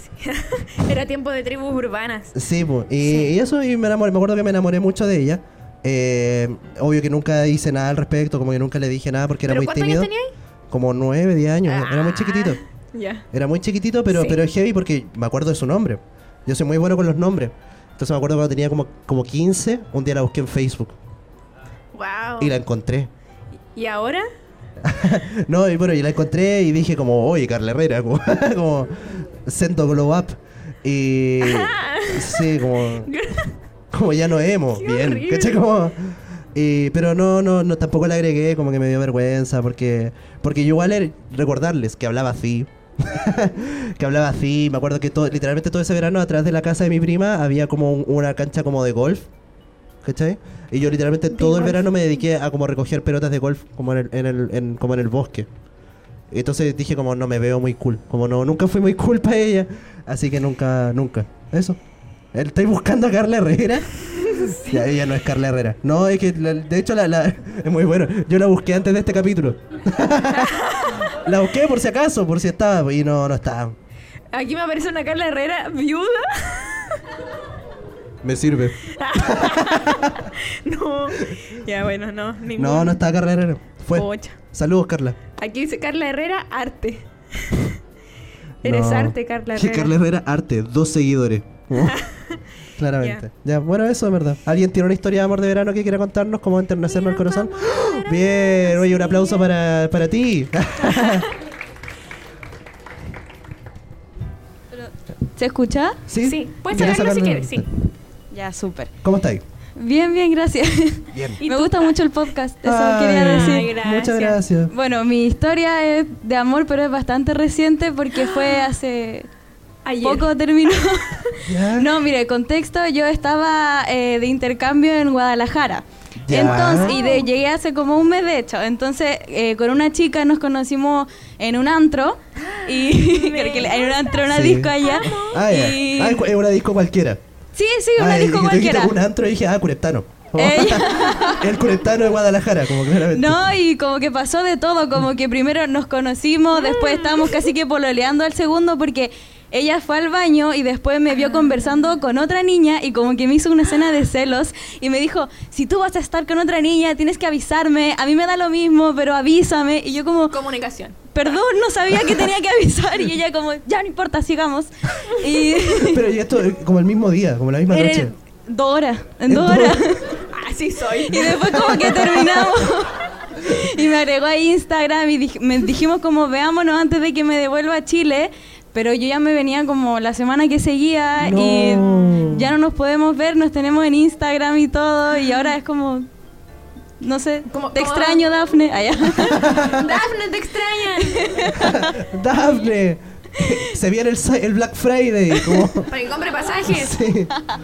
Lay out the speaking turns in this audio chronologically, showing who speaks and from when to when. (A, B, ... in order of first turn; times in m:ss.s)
0:00.2-0:02.3 A
0:02.3-0:10.1 B
0:03.0-0:03.3 A
0:09.5-0:10.3 A
0:10.7-0:12.6 B
0:11.7-0:13.2 A
0:13.3-0:21.0 B
0:14.1-0:14.4 A
0:21.9-0:22.5 A
0:22.4-0:23.1 B
0:23.8-0:24.3 A
0:24.8-0:33.1 B
0:31.4-0:33.5 A
0:33.9-0:49.3 B
0:34.8-0:35.6 A
0:50.0-0:55.5 B
0:51.3-0:51.8 A
0:56.3-1:01.8 B
1:02.3-1:03.9 B
1:04.1-1:04.8 A
1:04.4-1:10.6 B
1:10.3-1:11.1 A
1:11.1-1:13.7 B
1:14.3-1:17.0 A
1:18.2-1:20.3 B
1:19.0-1:23.0 A
1:22.6-1:25.2 B
1:23.9-1:24.4 A
1:25.4-1:27.8 A
1:28.6-1:32.0 B
1:28.6-1:29.9 A
1:31.8-1:32.4 A
1:32.8-1:41.3 B
1:36.8-1:39.4 A
1:40.8-1:41.2 A
1:45.4-1:46.0 C
1:46.1-1:47.6 B
1:46.2-1:47.7 A
1:48.3-1:48.9 C
1:49.0-1:49.4 B
1:49.8-1:53.7 C
1:51.1-1:51.4 B
1:51.4-1:52.0 A
1:52.6-1:54.7 B
1:53.2-1:54.4 A
1:54.7-1:59.3 C
1:58.2-1:58.6 A
1:59.8-2:01.2 A
2:00.0-2:01.2 C
2:01.4-2:01.9 B
2:01.8-2:16.2 C
2:06.2-2:06.9 B
2:06.4-2:07.3 A
2:12.5-2:14.3 A
2:14.3-2:17.2 B
2:14.8-2:15.7 A
2:17.5-2:18.9 C
2:18.0-2:23.5 B
2:20.4-2:21.4 C
2:23.1-2:40.3 C
2:26.5-2:27.4 A
2:31.1-2:31.8 A
2:40.3-2:41.4 A
2:41.1-2:46.0 C
2:45.8-2:48.1 B
2:47.7-2:50.1 C
2:49.3-2:49.8 B
2:50.3-2:51.7 A
2:51.1-3:06.1 C
2:51.4-2:52.4 B
3:01.2-3:02.5 B
3:07.0-3:09.4 C
3:07.5-3:08.2 A
3:09.1-3:11.7 A
3:09.3-3:09.8 B
3:11.5-3:15.9 B
3:15.3-3:17.0 A
3:16.7-3:17.3 B